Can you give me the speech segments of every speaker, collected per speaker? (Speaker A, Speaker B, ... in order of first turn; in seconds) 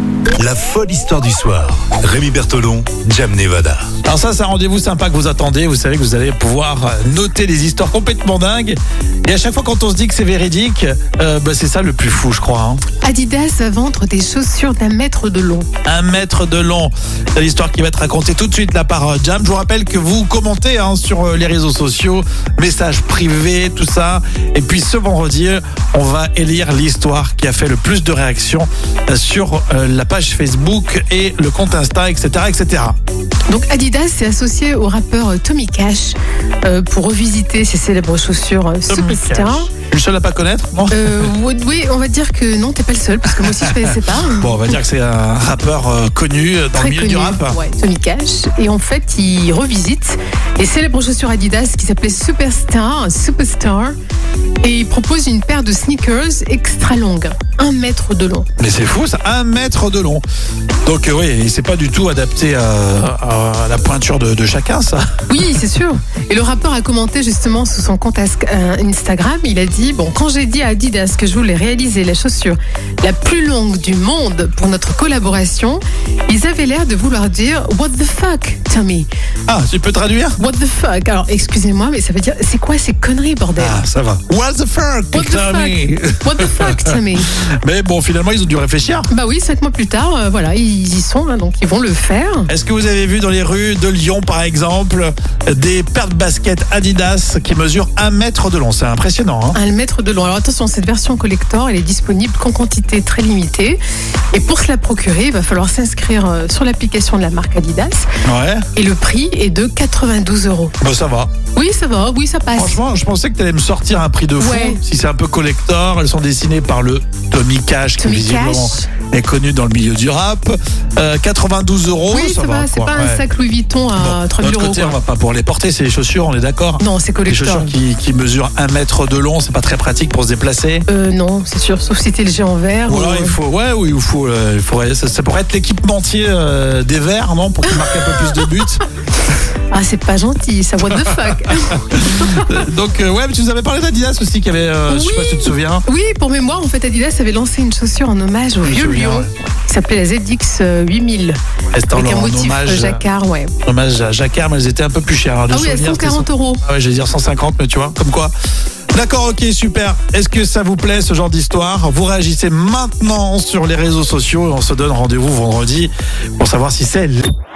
Speaker A: 0.4-3.9
Speaker B: 4.0-12.8, 15.8-33.0, 38.9-41.3, 43.5-47.6, 58.6-60.2, 60.8-65.2, 79.5-80.4, 83.6-89.1, 92.5-99.6, 108.2-108.7, 110.8-111.3, 112.5-123.2, 124.0-130.8, 132.9-138.8, 140.9-145.8, 148.6-149.3, 151.7-153.0, 153.6-158.3, 158.9-167.3
Speaker C: 13.0-15.7, 33.5-39.7, 40.9-44.8, 46.8-53.9, 54.6-58.5, 65.3-79.1, 80.4-83.8, 85.1-87.3, 89.1-92.5, 99.5-103.8, 104.3-108.1, 108.8-110.8, 111.5-112.8, 114.4-114.8, 118.0-118.9, 122.1-125.0, 126.8-127.7, 130.9-133.4, 137.6-138.6, 139.7-142.6, 144.9-151.4, 151.9-153.5, 155.5-156.6